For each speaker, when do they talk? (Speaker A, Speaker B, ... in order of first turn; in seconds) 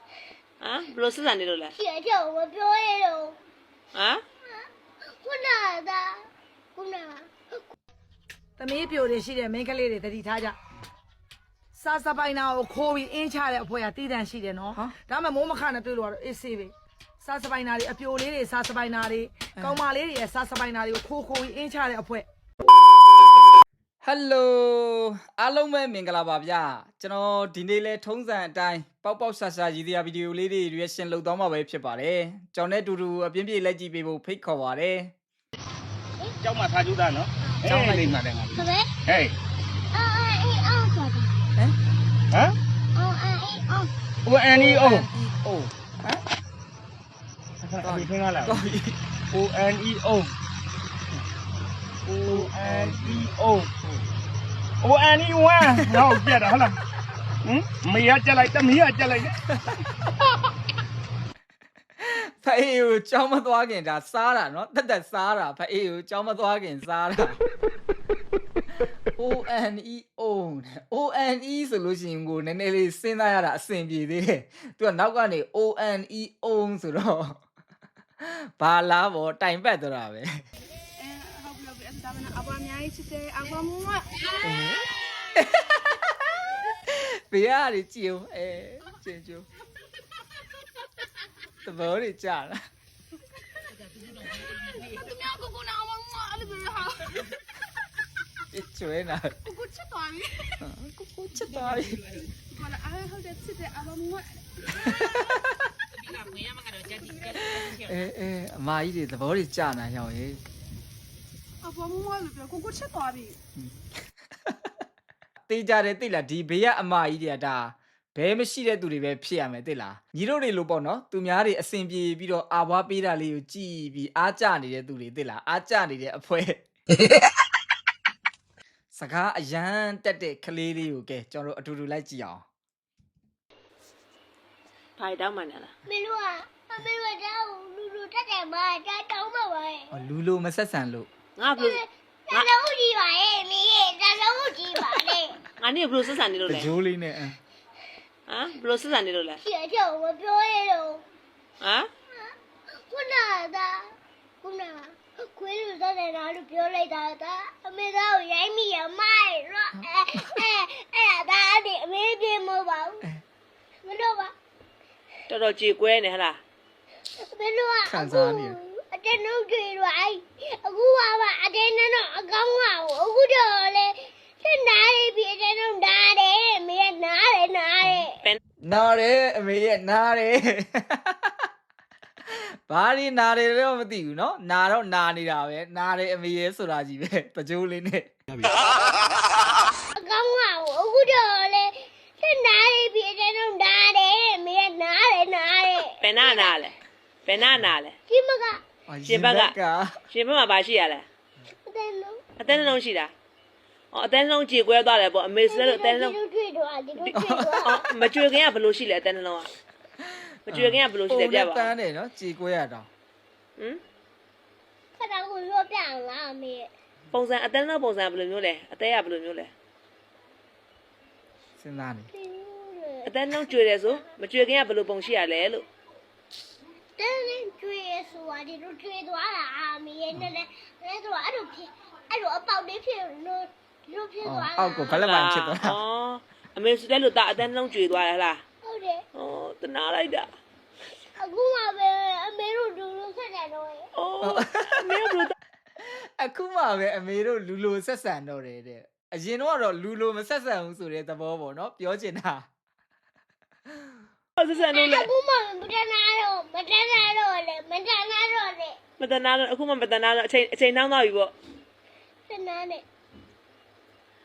Speaker A: 0.6-1.7, 3.9-4.2, 18.6-19.0, 20.7-21.5, 135.0-135.7, 141.4-141.8, 145.6-146.7, 148.3-149.4, 151.6-151.9, 165.3-166.4, 196.0-196.7, 197.2-197.9, 199.1-199.6, 200.1-201.1, 202.4-203.1, 203.9-206.1, 207.7-209.5, 210.5-211.7, 217.1-219.5, 223.1-225.7, 234.9-238.4, 239.1-240.3, 243.9-245.3, 254.4-255.1, 259.0-261.3
Speaker B: 1.7-3.4, 5.2-6.2, 6.8-7.7, 38.5-38.9, 39.9-41.3, 43.0-43.9, 135.9-139.9, 141.6-145.4, 149.4-151.1, 152.9-163.0, 163.8-164.3, 167.2-178.2, 190.0-196.6, 198.1-198.6, 201.7-202.3, 205.4-207.8, 215.0-216.7, 222.2-224.1, 227.0-235.0, 238.6-239.0, 241.2-243.9, 254.5-258.8, 262.3-262.8
Speaker C: 8.6-10.6, 11.7-22.2
Speaker D: 19.6-19.8, 24.0-35.1, 37.6-38.2, 44.5-46.2, 47.8-49.0, 52.1-53.3, 55.6-56.1, 59.5-59.8, 62.0-67.4, 69.2-77.4, 78.2-80.4, 84.4-89.5, 91.6-92.6, 98.5-99.3, 100.6-102.1, 104.8-105.5, 107.4-110.4, 115.5-126.6, 128.9-132.4, 139.9-141.1, 146.4-147.4, 167.8-168.6, 178.6-181.5, 182.3-188.1, 198.9-200.0, 207.1-207.6, 210.0-212.9, 221.6-222.1, 234.2-235.8, 244.2-245.2, 245.8-252.4
Speaker E: 36.4-39.4, 44.2-45.1, 47.6-48.5, 49.3-50.3, 52.1-53.7, 54.8-56.8, 57.4-59.3
Speaker F: 81.0-84.4, 94.7-97.2, 99.5-100.6, 102.5-105.0, 106.3-107.4, 111.6-113.4